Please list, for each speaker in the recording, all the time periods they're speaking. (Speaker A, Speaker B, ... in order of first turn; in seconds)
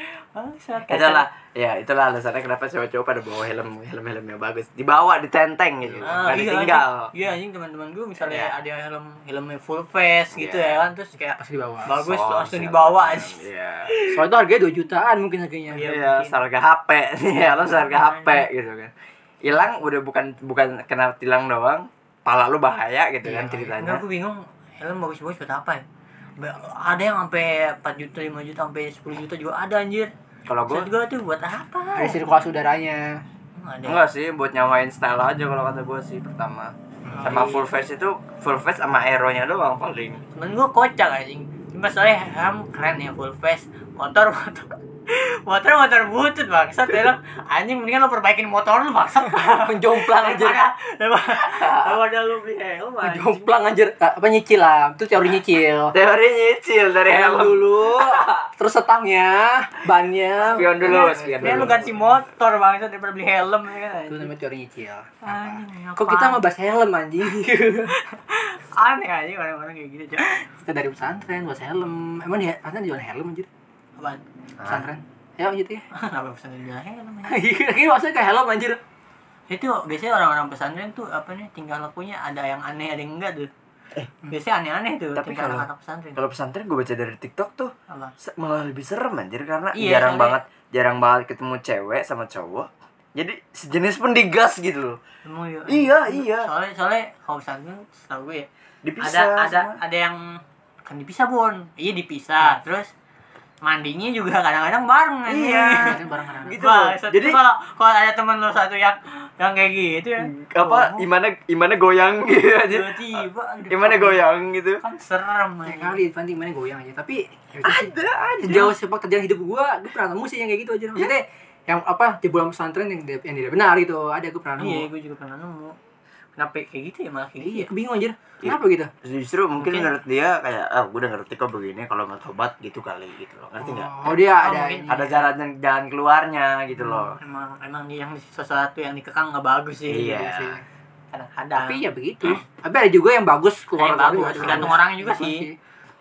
Speaker A: 0.3-1.2, 6.0-13.4, 15.7-16.4, 17.4-18.4, 23.8-25.8, 26.4-30.1, 30.7-32.2, 33.5-34.0, 37.1-37.7, 40.3-53.5, 60.5-64.3, 65.2-66.4, 67.9-70.4, 74.0-74.2, 75.9-77.4, 79.5-83.5, 84.3-86.2, 89.8-90.4, 95.2-98.5, 99.0-102.9, 103.6-111.1, 112.6-114.2, 114.8-116.0, 124.6-125.8, 126.4-127.7, 129.6-129.9, 134.4-135.1, 137.2-140.3, 141.1-142.4, 143.8-145.5
Speaker B: 0.9-7.1, 8.2-8.5, 10.3-10.8, 11.9-14.2, 15.8-18.9, 19.4-24.0, 30.5-30.9, 33.8-40.2, 51.4-52.0, 55.9-58.5, 60.5-62.0, 74.6-74.9, 85.1-95.0, 95.7-96.5, 98.8-99.8, 105.3-107.4, 110.2-114.8, 117.6-118.8, 128.4-134.2, 134.9-137.2, 139.9-140.6, 144.4-144.8
Speaker C: 5.9-6.2, 11.4-11.9, 14.0-15.9, 23.2-23.8, 31.9-33.2, 37.0-37.3, 49.3-50.6, 53.0-55.9, 57.1-61.9, 64.1-68.0, 70.6-73.5, 74.7-75.8, 77.3-78.8, 105.8-106.6, 115.6-124.9, 127.4-128.9, 133.6-135.1, 140.1-140.6, 141.6-145.6